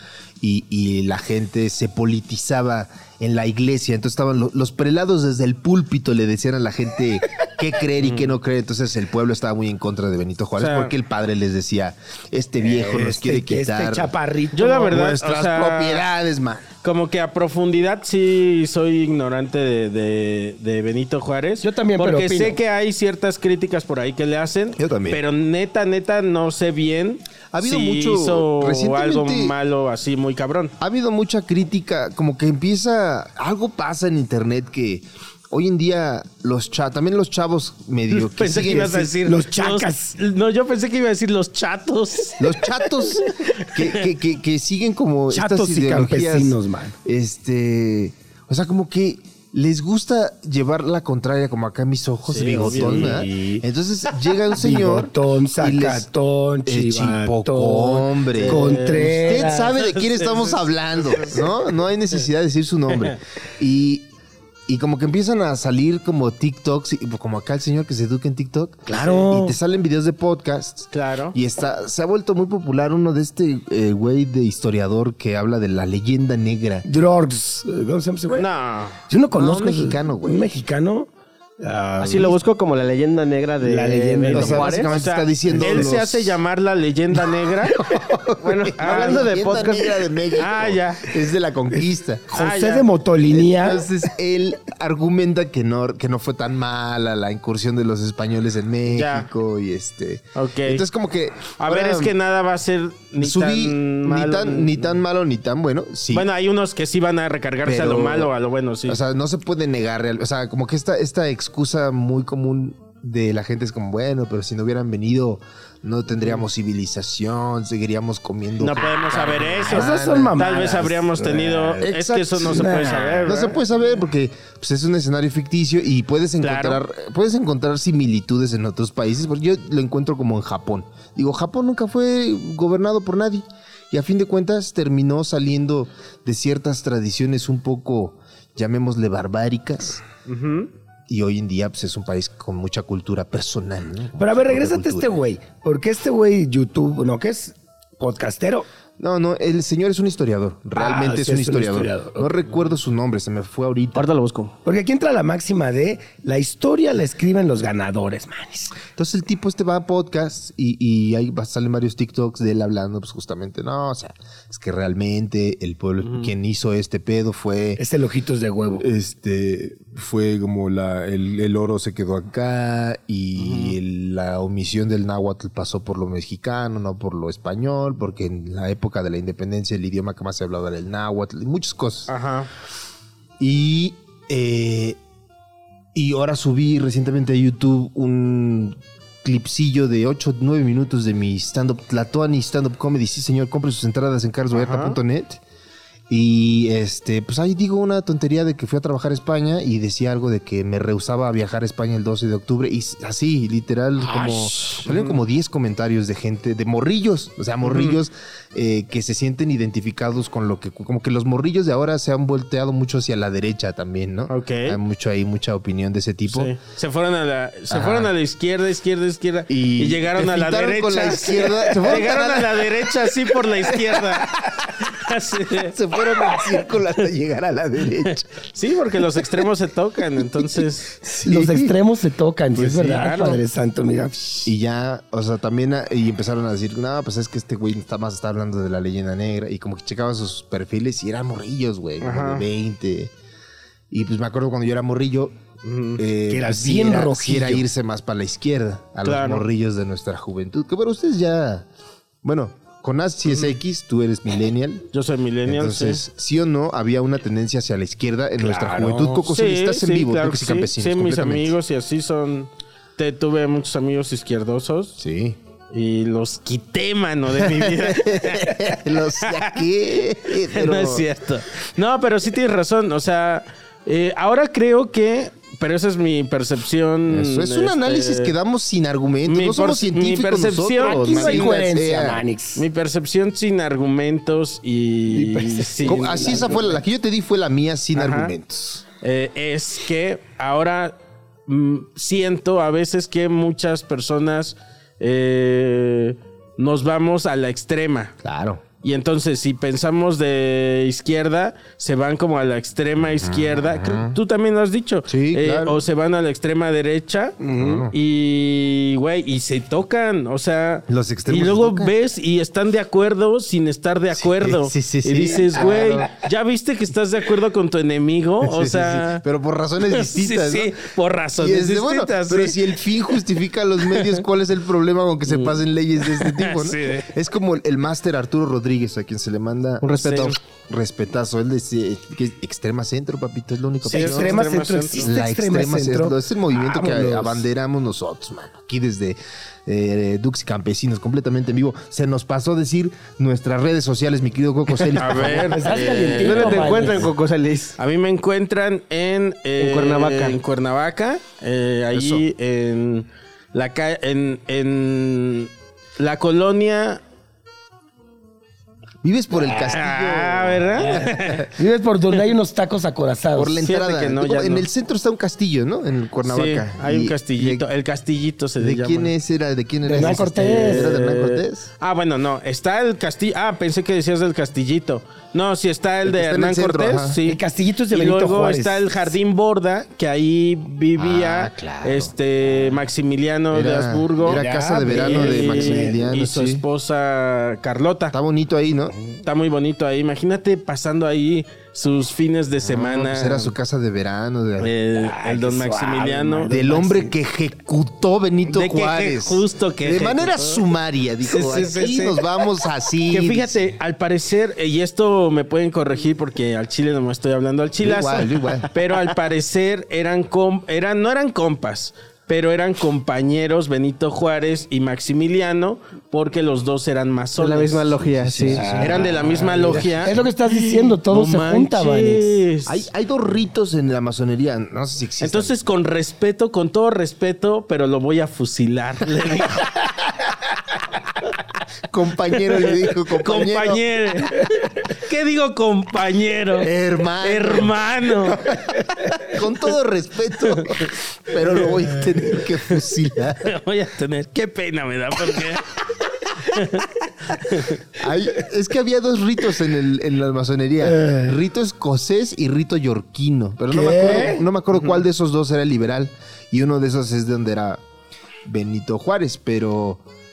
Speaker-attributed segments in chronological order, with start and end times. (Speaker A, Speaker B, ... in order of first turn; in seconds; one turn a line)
Speaker A: 0.4-14.1
Speaker B: 8.0-8.3
Speaker B: 10.6-10.9
Speaker C: 12.7-14.9
Speaker B: 14.5-16.1
Speaker A: 14.9-16.7
Speaker B: 16.8-30.7
Speaker C: 21.6-22.6
Speaker A: 24.8-25.2
Speaker A: 27.5-29.5
Speaker A: 30.8-39.1
Speaker B: 38.1-44.0
Speaker C: 39.0-40.1
Speaker A: 42.4-56.1
Speaker C: 45.3-46.9
Speaker B: 52.3-53.3
Speaker C: 52.6-53.6
Speaker C: 54.5-59.7
Speaker A: 56.6-64.1
Speaker B: 58.3-61.5
Speaker A: 64.7-76.8
Speaker C: 68.8-69.6
Speaker B: 69.0-69.2
Speaker B: 70.9-71.3
Speaker C: 76.8-78.5
Speaker B: 78.3-79.0
Speaker C: 79.1-81.1
Speaker A: 79.3-80.5
Speaker C: 81.6-82.4
Speaker D: 82.0-85.0
Speaker C: 83.6-84.8
Speaker A: 84.3-86.4
Speaker B: 84.9-91.1
Speaker A: 87.9-92.3
Speaker C: 91.7-93.8
Speaker B: 92.3-92.9
Speaker A: 93.3-102.1
Speaker B: 98.9-99.3
Speaker B: 100.3-100.8
Speaker B: 101.6-104.9
Speaker A: 103.2-106.3
Speaker B: 106.1-109.0
Speaker A: 107.6-108.3
Speaker A: 108.8-120.6
Speaker B: 118.6-123.6
Speaker C: 119.6-121.8
Speaker A: 121.3-140.0
Speaker C: 122.4-123.3
Speaker B: 126.4-126.8
Speaker B: 140.3-140.7
Speaker A: 141.1-145.2
Speaker C: 144.2-148.7
Speaker A: 149.0-154.1
Speaker C: 150.8-152.4
Speaker D: 153.9-154.5
Speaker C: 154.6-158.7
Speaker A: 158.9-167.8
Speaker B: 166.0-166.3
Speaker C: 167.8-168.9
Speaker A: 168.8-182.1
Speaker B: 173.4-173.8
Speaker B: 182.1-182.5
Speaker A: 183.4-185.0
Speaker A: 185.9-195.4
Speaker B: 194.5-195.0
Speaker A: 196.1-216.5
Speaker C: 204.1-204.8
Speaker B: 204.8-205.2
Speaker B: 207.6-208.0
Speaker B: 214.3-214.8
Speaker B: 216.3-225.7
Speaker A: 217.7-218.1
Speaker A: 219.5-224.9
Speaker A: 225.5-228.4
Speaker B: 228.5-231.0
Speaker C: 231.0-234.5
Speaker A: 231.1-231.8
Speaker B: 232.5-233.4
Speaker A: 234.4-243.1
Speaker B: 242.0-242.4
Speaker A: 243.9-245.4
Speaker B: 245.6-246.0
Speaker A: 245.9-251.7
Speaker C: 246.3-247.6
Speaker B: 249.0-249.4
Speaker A: 252.2-254.9
Speaker B: 254.9-256.0
Speaker A: 255.4-261.5
Speaker C: 258.4-259.2
Speaker B: 259.3-265.0
Speaker A: 265.0-265.4
Speaker B: 265.7-269.6
Speaker A: 267.4-271.1
Speaker B: 270.5-278.3
Speaker A: 277.1-282.2
Speaker B: 279.2-281.6
Speaker C: 280.8-282.6
Speaker B: 282.6-286.4
Speaker C: 285.1-286.8
Speaker A: 285.8-288.8
Speaker B: 287.9-288.3
Speaker B: 289.0-290.9
Speaker B: 291.5-298.1
Speaker A: 298.2-298.6
Speaker B: 298.8-319.2
Speaker A: 303.2-304.2
Speaker A: 305.1-305.8
Speaker C: 307.4-307.8
Speaker A: 307.5-307.9
Speaker A: 310.9-311.9
Speaker A: 314.1-316.1
Speaker A: 318.4-320.8
Speaker B: 319.9-322.8
Speaker A: 321.4-334.4
Speaker B: 325.3-327.1
Speaker D: 329.8-330.4
Speaker B: 329.9-330.4
Speaker C: 333.8-337.4
Speaker B: 333.9-335.1
Speaker A: 335.0-345.7
Speaker B: 344.8-347.0
Speaker C: 345.2-347.1
Speaker D: 346.2-347.8
Speaker B: 347.8-357.0
Speaker D: 349.6-350.4
Speaker A: 351.9-352.2
Speaker A: 359.0-361.4
Speaker B: 359.7-361.5
Speaker C: 361.5-363.6
Speaker A: 363.3-367.6
Speaker B: 363.6-364.7
Speaker B: 366.2-369.1
Speaker A: 368.6-371.7
Speaker C: 369.8-370.9
Speaker B: 370.0-388.1
Speaker A: 376.0-377.2
Speaker C: 377.2-378.9
Speaker A: 381.0-382.1
Speaker A: 383.5-386.6
Speaker C: 384.3-385.9
Speaker A: 388.1-388.9
Speaker B: 389.2-393.5
Speaker A: 392.6-394.7
Speaker B: 394.6-396.5
Speaker C: 394.9-397.1
Speaker A: 396.5-403.6
Speaker B: 398.5-400.6
Speaker B: 401.2-402.2
Speaker B: 403.1-417.9
Speaker A: 407.8-408.7
Speaker D: 417.4-418.7
Speaker A: 418.0-420.1
Speaker C: 418.5-422.3
Speaker B: 418.7-422.8
Speaker A: 422.6-425.6
Speaker B: 425.2-429.9
Speaker A: 431.9-433.8
Speaker B: 432.5-436.7
Speaker A: 436.6-437.8
Speaker B: 437.2-438.5
Speaker A: 438.3-443.5
Speaker B: 443.4-445.7
Speaker B: 446.4-447.8
Speaker A: 447.9-457.8
Speaker C: 450.8-451.3
Speaker C: 453.7-454.4
Speaker A: 458.4-460.0